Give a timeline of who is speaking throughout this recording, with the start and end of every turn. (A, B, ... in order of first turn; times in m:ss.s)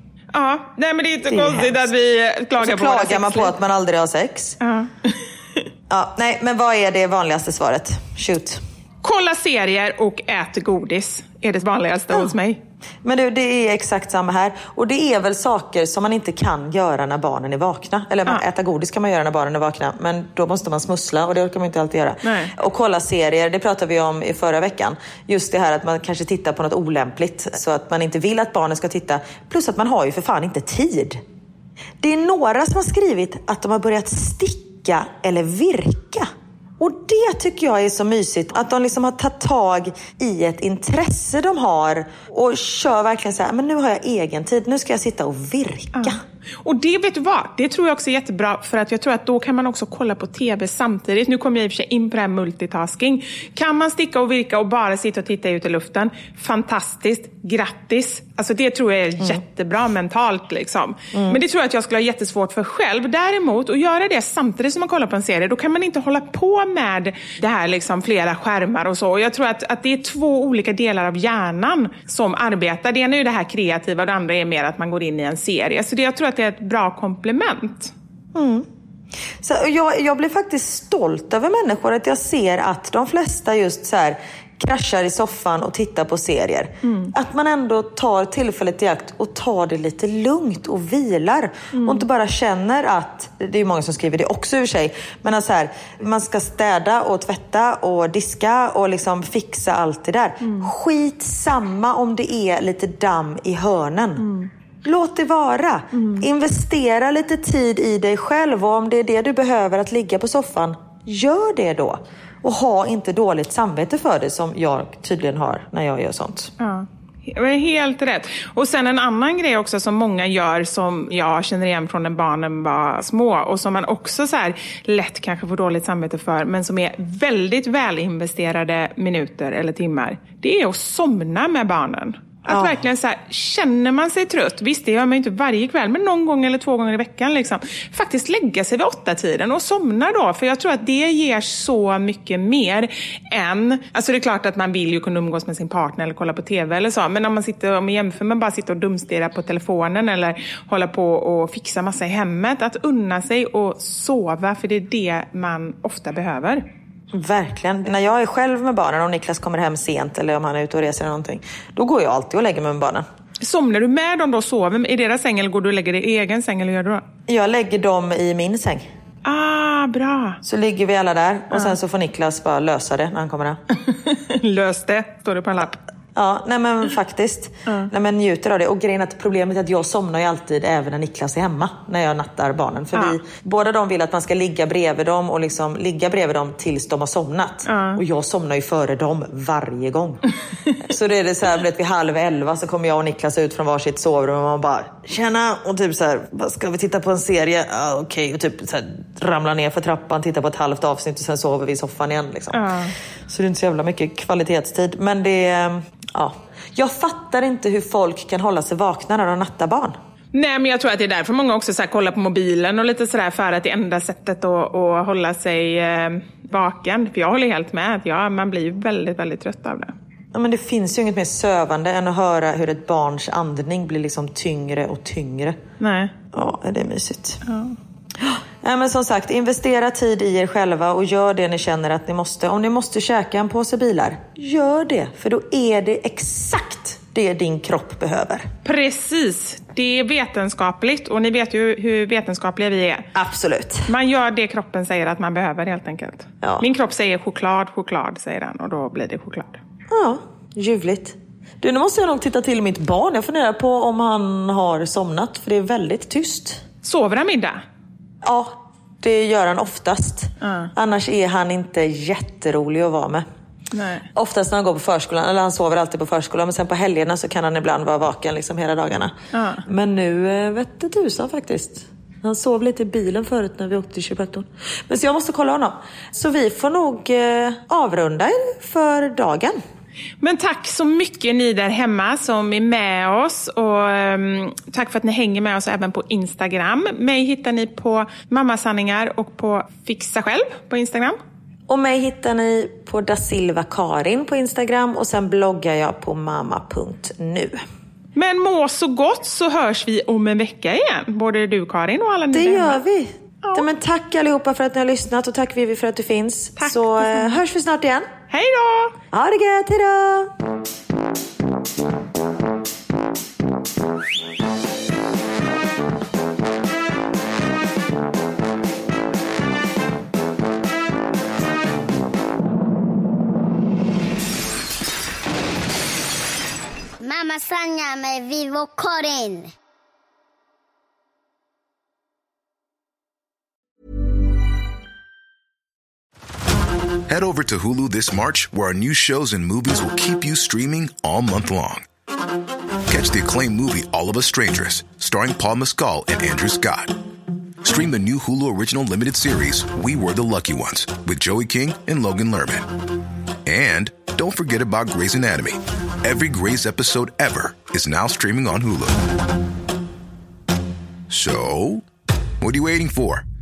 0:00.3-0:03.5 A
0:01.2-0:01.8 B
0:02.6-0:04.6 B
0:04.6-0:05.2 A
0:05.9-0:08.6 B
0:09.0-0:12.6 A
0:13.0-0:31.2 B
0:22.2-0:22.5 A
0:32.0-0:36.3 B
0:36.8-0:46.2 B
0:45.9-1:17.9 A
1:01.1-1:01.4 B
1:18.3-1:18.7 B
1:19.4-1:44.3 B
1:26.8-1:27.1 A
1:31.7-1:32.1 A
1:40.4-1:40.7 A
1:44.2-1:44.5 A
1:44.8-1:56.5 B
1:45.9-1:46.2 A
1:56.6-2:36.6 A
2:12.5-2:12.8 B
2:37.1-2:43.1 B
2:43.4-2:47.0 A
2:47.3-2:48.9 B
2:49.2-2:50.4 A
2:50.4-2:53.6 B
2:53.8-2:55.8 A
2:56.2-3:10.2 B
3:07.7-3:08.0 A
3:10.8-3:22.7 B
3:22.5-3:22.9 A
3:23.3-3:30.0 B
3:30.3-3:39.9 A
3:40.3-3:45.6 B
3:45.8-3:46.1 A
3:46.3-3:47.4 B
3:47.4-3:47.8 A
3:48.2-3:58.5 B
3:58.6-4:03.1 A
4:03.2-4:03.9 B
4:03.9-4:09.6 A
4:09.9-4:16.6 B
4:16.8-4:17.6 A
4:18.2-4:23.2 B
4:20.4-4:20.7 A
4:23.7-4:24.1 A
4:24.1-4:39.6 B
4:29.3-4:29.6 A
4:40.2-4:51.2 A
4:51.7-4:57.6 B
4:58.2-5:02.8 A
5:02.3-5:08.1 B
5:06.6-5:07.3 A
5:08.3-5:09.0 A
5:09.1-5:10.3 B
5:27.0-5:29.5 C
5:37.1-5:41.9 D
5:42.9-5:47.0 D
5:47.6-5:52.7 D
5:53.5-5:59.0 D
6:01.1-6:01.9 D
6:02.4-6:03.2 D